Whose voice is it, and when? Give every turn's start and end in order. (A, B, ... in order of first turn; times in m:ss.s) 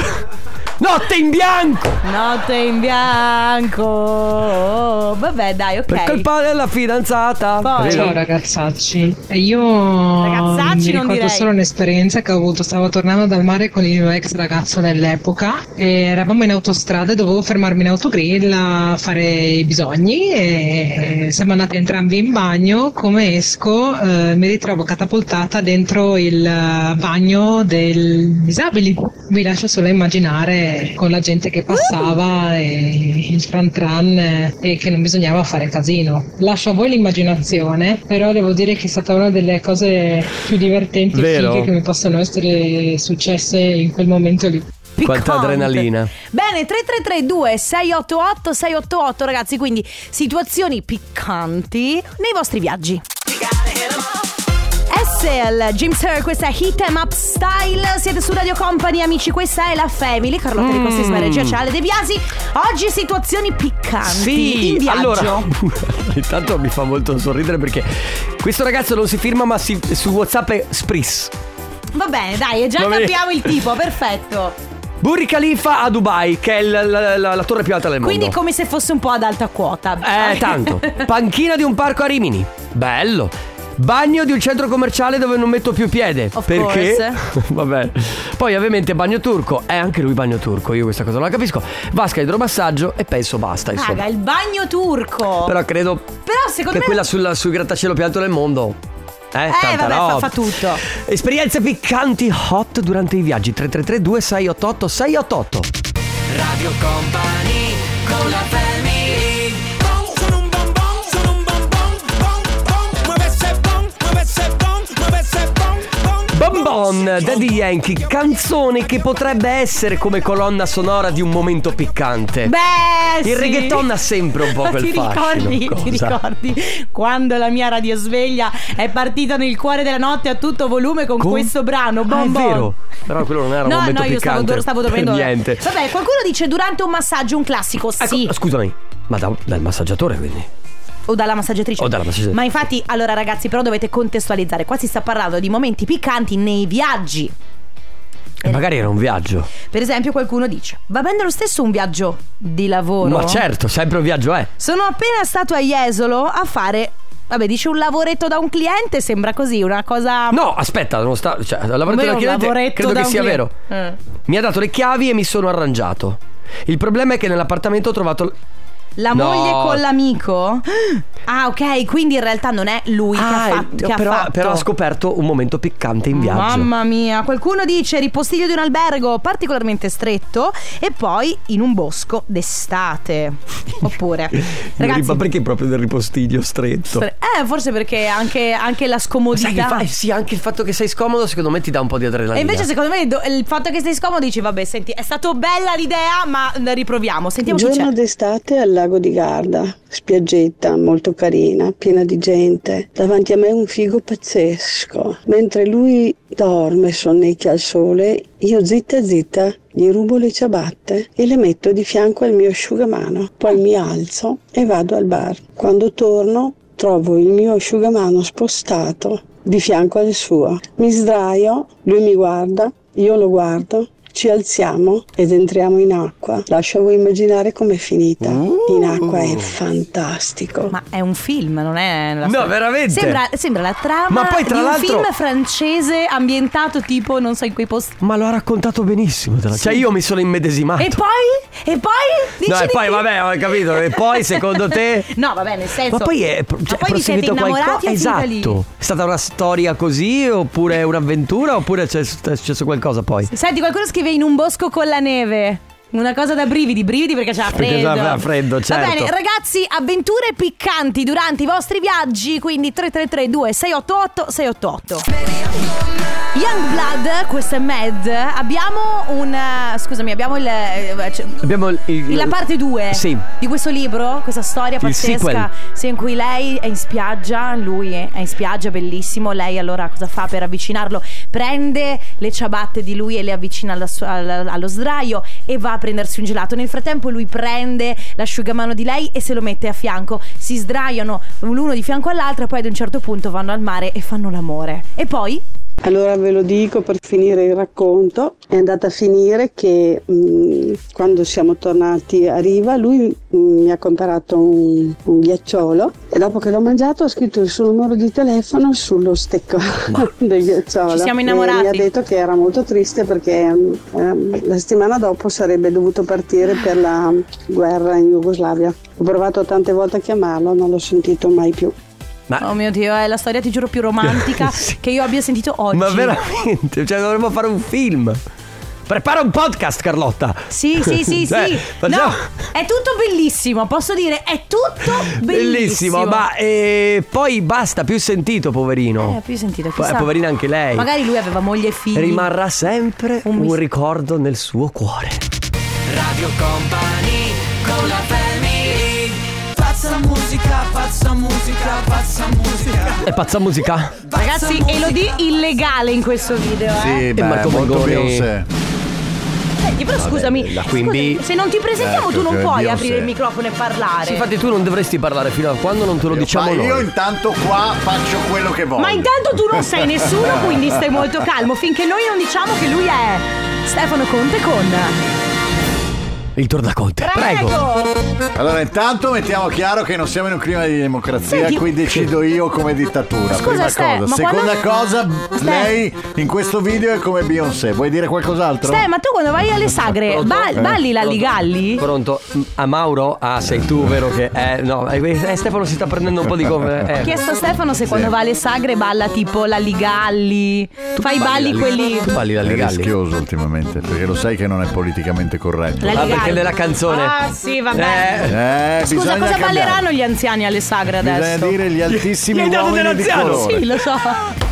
0:00.8-0:02.0 A
0:02.0-0:06.3 B
0:05.9-0:08.2 A
0:07.6-0:08.2 B
0:07.8-0:44.7 C
0:10.2-0:11.5 B
0:41.1-0:41.7 A
0:45.0-0:53.0 B
0:45.0-0:46.1 A
0:54.9-1:05.5 B
1:00.6-1:01.6 A
1:04.0-1:11.3 A
1:11.9-1:14.6 B
1:12.8-1:13.6 A
1:15.0-1:18.4 A
1:18.0-1:21.1 B
1:20.0-1:34.0 A
1:26.4-1:27.2 B
1:33.7-1:35.6 B
1:35.4-1:36.2 A
1:36.2-1:37.1 B
1:36.7-1:38.8 A
1:39.3-1:45.7 A
1:39.5-1:40.8 B
1:46.3-1:49.7 A
1:53.2-1:55.6 D
1:56.3-2:02.6 A
2:02.4-2:12.7 B
2:03.2-2:06.2 A
2:11.2-2:15.7 A
2:13.6-2:18.3 B
2:18.0-2:20.5 A
2:21.1-2:27.3 B
2:21.8-2:22.4 A
2:28.4-2:29.5 A
2:29.6-2:33.4 B
2:33.0-2:34.5 A
2:34.6-2:40.4 B
2:40.3-2:43.5 A
2:41.9-2:44.0 B
2:44.3-2:48.4 A
2:49.0-2:54.7 B
2:49.1-2:49.8 A
2:53.1-2:56.7 A
2:56.1-3:05.2 B
3:04.3-3:07.1 A
3:06.9-3:09.9 B
3:09.3-3:12.7 A
3:12.3-3:17.9 B
3:17.5-3:50.7 E
3:48.2-3:49.5 A
3:50.7-3:57.9 B
3:52.2-3:53.2 A
3:54.1-3:55.1 A
3:58.0-4:01.0 A
3:59.6-3:59.9 B
4:00.8-4:06.1 B
4:02.4-4:05.1 A
4:05.8-4:13.3 A
4:06.7-4:08.6 B
4:13.3-4:25.0 B
4:17.5-4:19.1 A
4:26.3-4:31.5 B
4:31.4-4:32.4 A
4:32.0-4:55.4 B
4:32.9-4:33.3 A
4:34.8-4:35.5 A
4:55.8-5:21.8 E
5:09.8-5:10.1 A
5:10.9-5:11.9 B
5:22.4-5:26.3 B
5:24.0-5:24.7 A
5:25.7-5:28.2 A
5:28.9-5:32.3 A
5:30.5-5:36.2 B
5:35.0-5:39.2 A
5:39.0-5:40.1 B
5:39.8-5:40.9 A
5:40.7-5:42.3 B
5:42.0-5:45.2 A
5:43.2-5:43.6 B
5:45.9-5:49.2 A
5:49.7-5:52.1 A
5:52.8-5:54.1 A
5:54.1-5:57.1 B
5:56.8-5:58.5 F
5:57.2-5:58.3 A
5:59.6-6:04.3 B
6:00.0-6:01.2 A
6:01.8-6:03.2 F
6:04.0-6:06.9 A
6:06.0-6:10.8 F
6:08.8-6:15.0 B
6:16.4-6:17.6 A
6:17.0-6:18.0 B
6:18.4-6:28.9 F
6:21.3-6:21.7 B
6:23.3-6:25.8 B
6:28.6-6:31.9 B
6:30.0-6:37.2 A
6:33.5-6:33.9 F
6:36.2-6:36.8 F
6:37.0-6:42.2 B
6:37.9-6:38.1 F
6:41.0-6:42.9 A
6:42.4-6:46.4 F
6:45.8-6:51.6 B
6:45.9-6:47.2 A
6:47.7-6:48.4 A
6:48.3-6:49.9 F
6:51.0-6:53.7 F
6:51.9-6:53.6 A
6:53.0-6:54.2 B